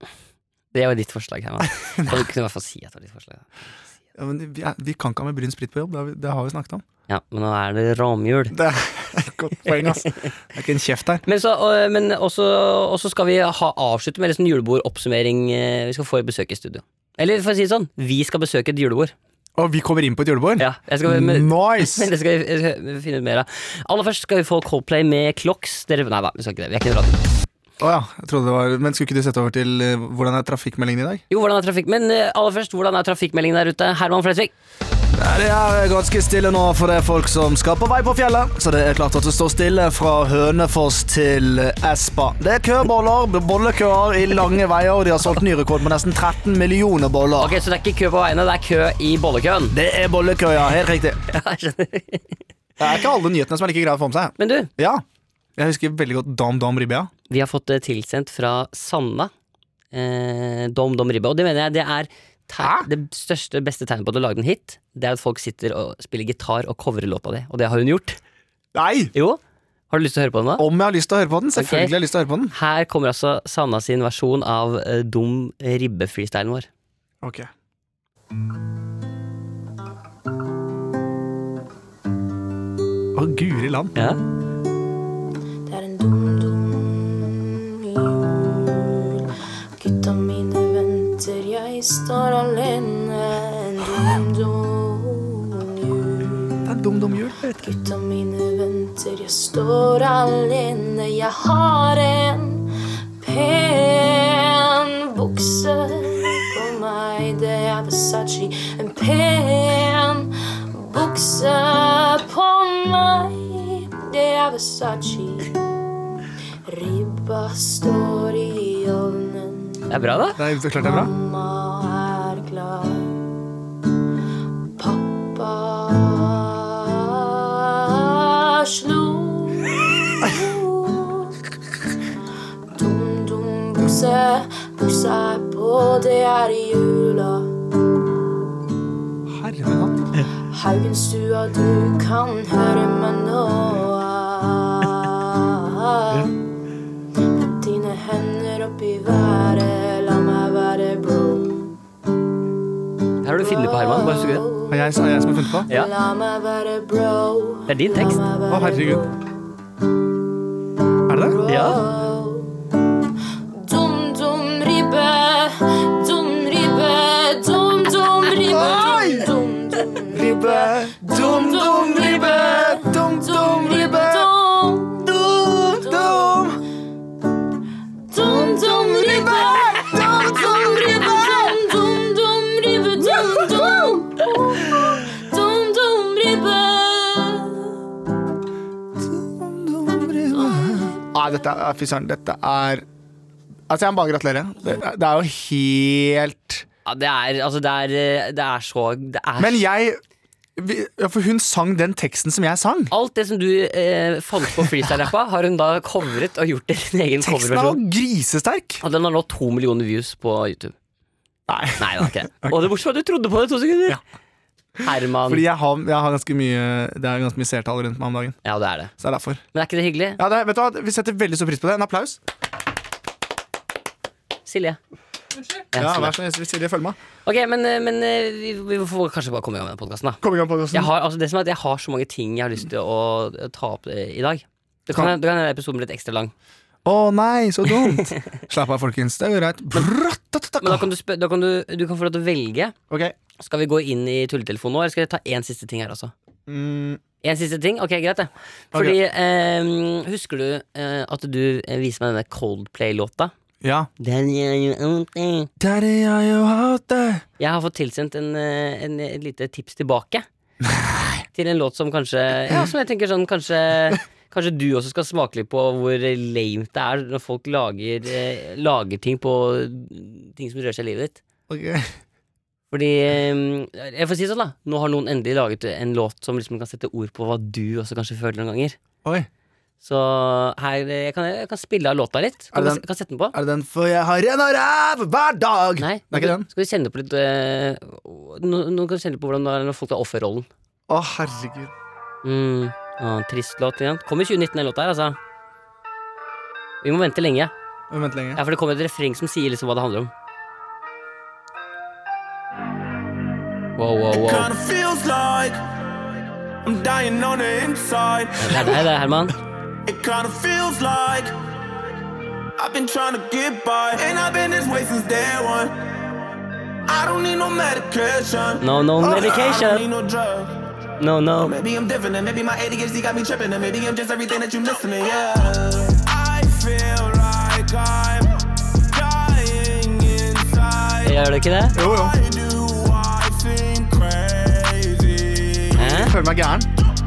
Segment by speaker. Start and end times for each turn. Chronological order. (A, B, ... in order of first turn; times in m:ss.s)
0:00.7-0:03.5 A
0:02.0-0:02.2 B
0:04.2-0:06.8 B
0:07.1-0:08.6 A
0:08.5-0:11.2 B
0:09.7-0:10.3 A
0:11.3-0:19.1 A
0:19.6-0:22.1 B
0:20.6-0:27.2 A
0:27.8-0:31.2 B
0:31.3-0:34.5 A
0:35.1-0:47.6 B
0:47.4-0:49.8 A
0:49.7-0:51.2 B
0:51.3-0:52.4 A
0:52.8-0:55.0 B
0:54.4-0:54.7 A
0:55.6-0:57.1 B
0:57.3-0:59.3 A
0:59.9-1:08.2 A
1:02.6-1:02.9 B
1:08.7-1:09.1 B
1:09.1-1:10.7 A
1:10.6-1:12.5 B
1:11.6-1:12.0 A
1:12.5-1:16.7 A
1:17.2-1:17.5 B
1:23.2-1:24.0 B
1:25.7-1:36.7 C
1:36.6-1:37.7 B
1:37.6-1:42.7 C
1:43.2-1:55.6 C
1:56.7-1:59.8 C
1:59.9-2:00.4 A
2:00.4-2:01.1 B
2:00.8-2:03.2 C
2:04.8-2:11.4 C
2:12.7-2:17.5 C
2:19.3-2:20.3 B
2:20.5-2:26.3 C
2:27.3-2:31.7 C
2:33.2-2:34.5 A
2:33.4-2:39.2 C
2:34.7-2:35.7 B
2:37.7-2:38.2 A
2:38.5-2:39.0 B
2:41.1-2:41.4 B
2:41.1-2:42.6 C
2:41.5-2:41.8 A
2:43.5-2:56.4 C
2:48.4-2:49.3 B
2:50.1-2:54.3 B
2:55.0-2:56.6 B
2:58.1-3:07.8 C
2:58.2-3:01.6 B
3:03.0-3:04.0 B
3:09.0-3:12.8 B
3:10.5-3:10.9 C
3:13.7-3:16.6 B
3:16.8-3:19.7 A
3:19.4-3:20.0 B
3:20.6-3:22.9 B
3:22.9-3:27.8 A
3:27.2-3:28.8 B
3:28.8-3:30.8 A
3:31.5-3:32.6 B
3:31.8-3:34.0 A
3:34.8-3:38.4 B
3:34.8-3:35.4 A
3:38.4-3:38.9 A
3:39.0-3:39.4 B
3:39.5-3:40.2 A
3:40.2-3:42.2 B
3:44.5-3:44.8 A
3:45.7-3:46.1 A
3:45.8-3:47.0 B
3:47.2-3:56.3 A
3:50.2-3:50.9 B
3:56.8-4:00.9 B
3:57.9-3:58.3 A
4:00.6-4:02.8 A
4:02.9-4:03.2 B
4:03.4-4:06.1 A
4:06.5-4:07.0 B
4:07.2-4:13.3 A
4:13.6-4:13.9 B
4:14.0-4:15.5 A
4:15.6-4:17.2 B
4:17.4-4:20.3 A
4:20.7-4:21.1 B
4:21.3-4:31.2 A
4:31.5-4:31.9 B
4:32.7-4:38.8 A
4:39.8-4:43.4 A
4:42.5-4:42.8 B
4:43.3-4:46.5 B
4:45.8-4:50.5 A
4:50.9-4:51.7 B
4:52.2-4:55.2 A
4:56.8-4:57.5 A
4:57.9-4:58.4 B
4:58.4-5:00.1 A
5:03.8-5:04.5 A
5:04.1-5:05.6 D
5:06.6-5:08.8 D
5:08.4-5:09.4 A
5:09.9-5:11.3 D
5:12.6-5:15.8 D
5:16.9-5:20.6 D
5:18.6-5:19.9 A
5:21.0-5:21.6 A
5:21.4-5:36.1 D
5:31.0-5:31.8 A
5:31.8-5:32.1 B
5:35.8-5:36.2 A
5:36.0-5:36.7 B